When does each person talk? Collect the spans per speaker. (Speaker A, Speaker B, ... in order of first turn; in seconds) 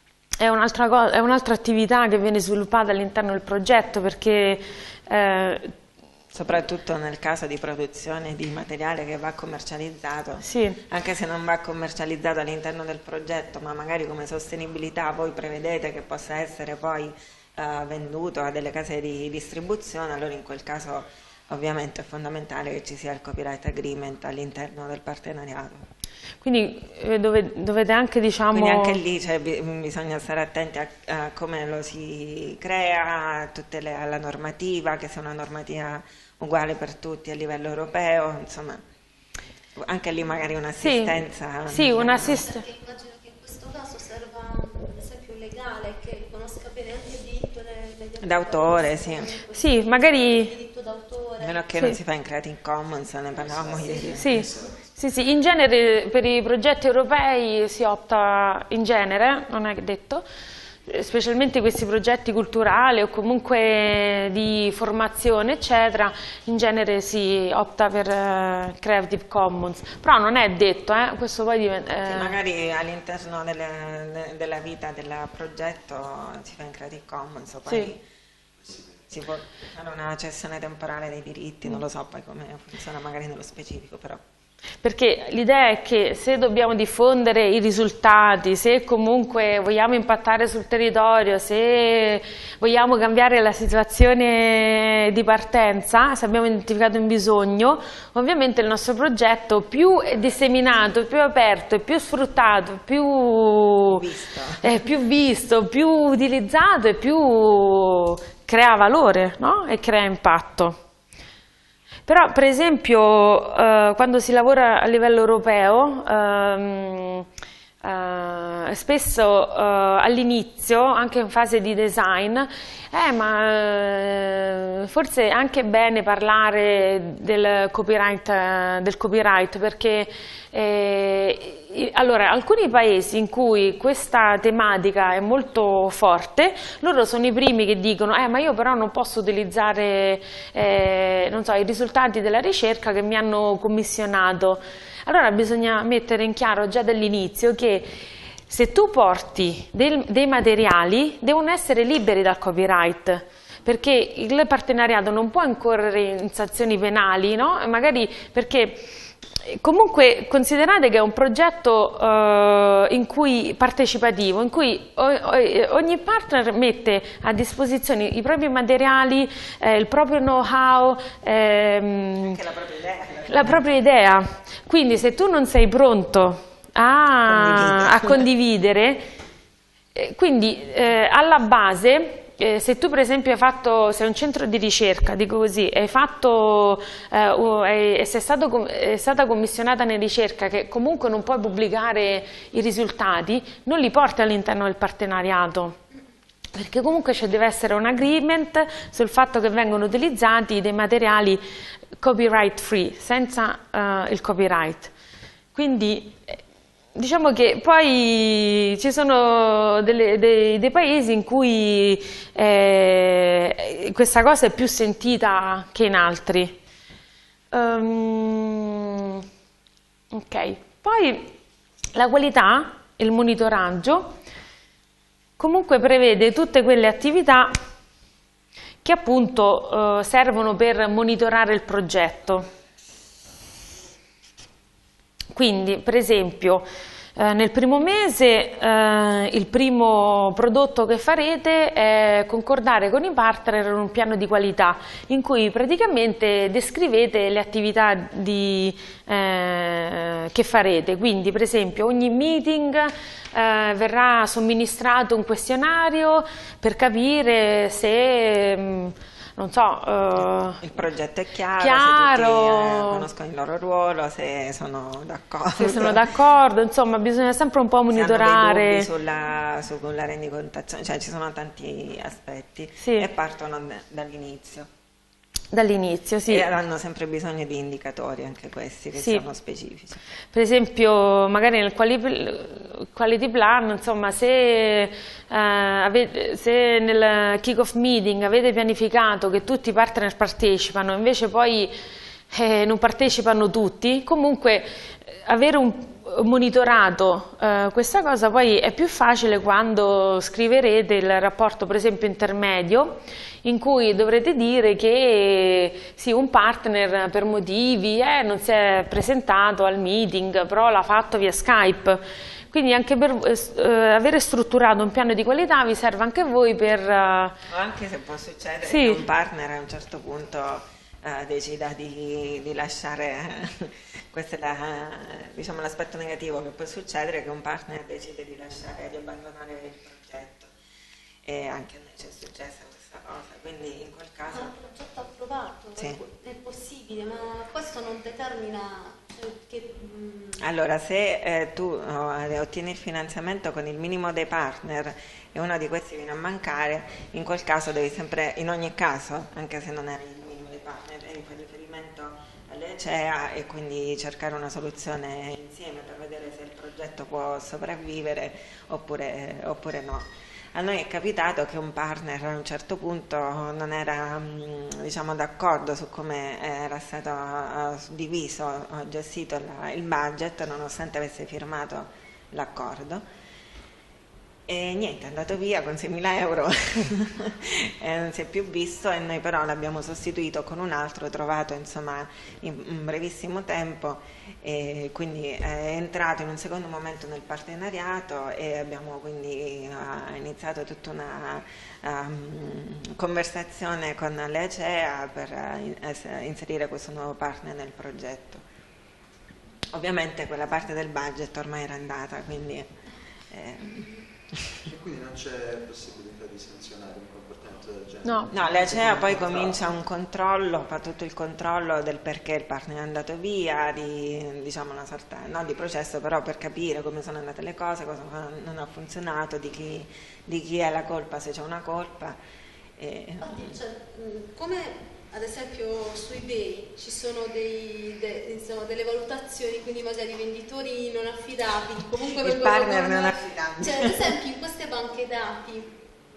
Speaker A: 0.4-5.7, 10.4-10.8, 26.4-29.0, 40.8-42.6, 49.6-50.5, 54.2-60.2, 60.9-72.4, 84.8-104.0, 104.6-110.8, 112.1-117.3, 117.8-147.9, 148.5-158.9, 159.4-172.4, 173.3-179.1, 179.9-195.8, 196.5-201.4, 202.0-204.9, 205.6-206.4, 206.9-216.6, 217.5-219.2, 220.1-221.3, 221.9-224.2, 225.4-227.6, 228.8-232.5, 235.3-260.6, 261.6-263.1, 265.5-268.9, 272.8-273.1, 275.5-276.4, 278.9-279.2, 280.3-291.7, 292.3-317.4, 318.6-319.0, 408.1-408.3
Speaker B: 6.3-25.9, 28.5-38.8, 39.8-42.4, 48.2-49.3, 51.4-54.5, 72.0-78.0, 79.1-84.2, 103.8-104.8, 172.2-173.6, 177.3-178.3, 260.6-266.0, 267.9-274.7, 276.3-280.0, 317.5-330.5, 331.2-334.5, 340.4-373.1, 374.5-398.4, 399.7-402.7, 403.3-404.6, 408.3-422.2, 422.8-423.6, 432.0-434.1
Speaker C: 42.0-51.6, 334.3-340.4, 423.2-435.7
Speaker D: 53.4-54.7, 404.6-409.7